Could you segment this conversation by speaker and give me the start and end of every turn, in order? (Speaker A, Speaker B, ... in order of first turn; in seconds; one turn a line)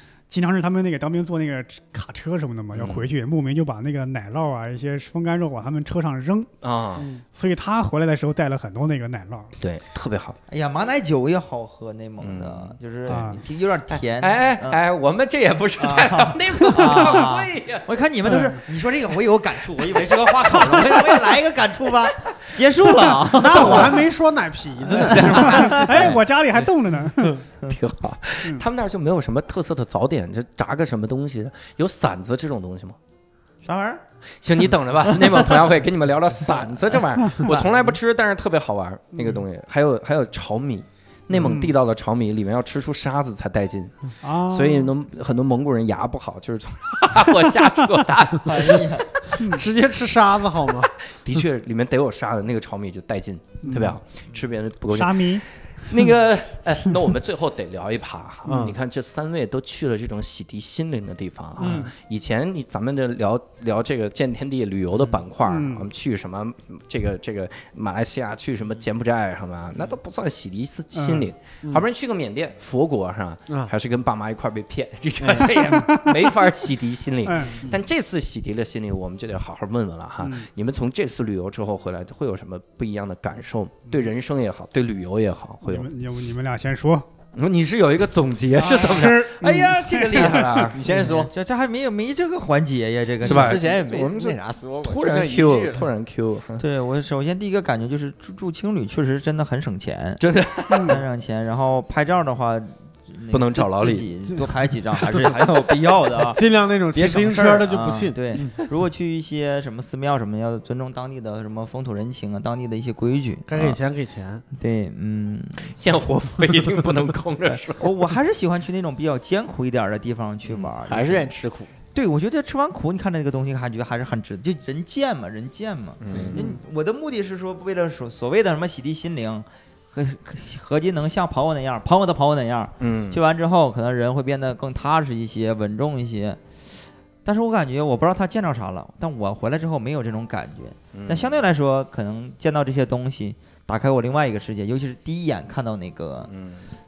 Speaker A: 0.3-6.5
Speaker B: 2.7-3.1
Speaker B: 6.6-7.1
Speaker C: 7.0-7.2
Speaker A: 7.3-9.5
Speaker B: 9.6-10.4
Speaker D: 10.5-14.8
Speaker B: 12.2-13.4
Speaker A: 13.1-13.4
Speaker B: 13.9-17.9
Speaker D: 15.8-24.0
Speaker A: 18.2-18.6
Speaker B: 20.4-21.4
Speaker B: 23.1-24.0
Speaker C: 23.3-26.1
Speaker B: 25.0-26.2
Speaker A: 25.2-27.4
Speaker B: 27.6-33.0
Speaker D: 33.6-34.0
Speaker B: 34.4-49.0
Speaker C: 41.3-41.7
Speaker A: 44.2-44.9
Speaker D: 48.4-49.1
Speaker A: 49.4-49.6
Speaker C: 49.4-50.9
Speaker B: 51.1-85.9
Speaker A: 53.6-53.9
Speaker A: 54.9-55.4
Speaker C: 58.4-58.8
Speaker C: 61.6-61.9
Speaker A: 61.6-61.9
Speaker A: 65.4-65.9
Speaker A: 70.9-71.3
Speaker C: 75.2-75.5
Speaker A: 75.3-76.6
Speaker A: 77.2-77.6
Speaker A: 80.2-80.5
Speaker A: 85.6-87.0
Speaker B: 87.3-90.8
Speaker A: 88.6-90.6
Speaker E: 90.2-91.3
Speaker D: 90.8-93.6
Speaker B: 93.2-96.6
Speaker E: 93.2-95.9
Speaker D: 96.6-100.2
Speaker B: 100.2-101.0
Speaker A: 100.7-101.0
Speaker D: 100.8-106.4
Speaker B: 103.3-104.1
Speaker C: 106.3-108.6
Speaker D: 106.9-113.8
Speaker C: 113.5-114.4
Speaker D: 114.5-115.8
Speaker B: 115.7-117.9
Speaker D: 117.8-121.3
Speaker E: 120.8-121.7
Speaker D: 121.9-136.4
Speaker B: 126.0-126.4
Speaker E: 126.1-126.5
Speaker B: 132.8-133.2
Speaker D: 137.2-146.3
Speaker B: 140.9-141.3
Speaker B: 146.3-146.7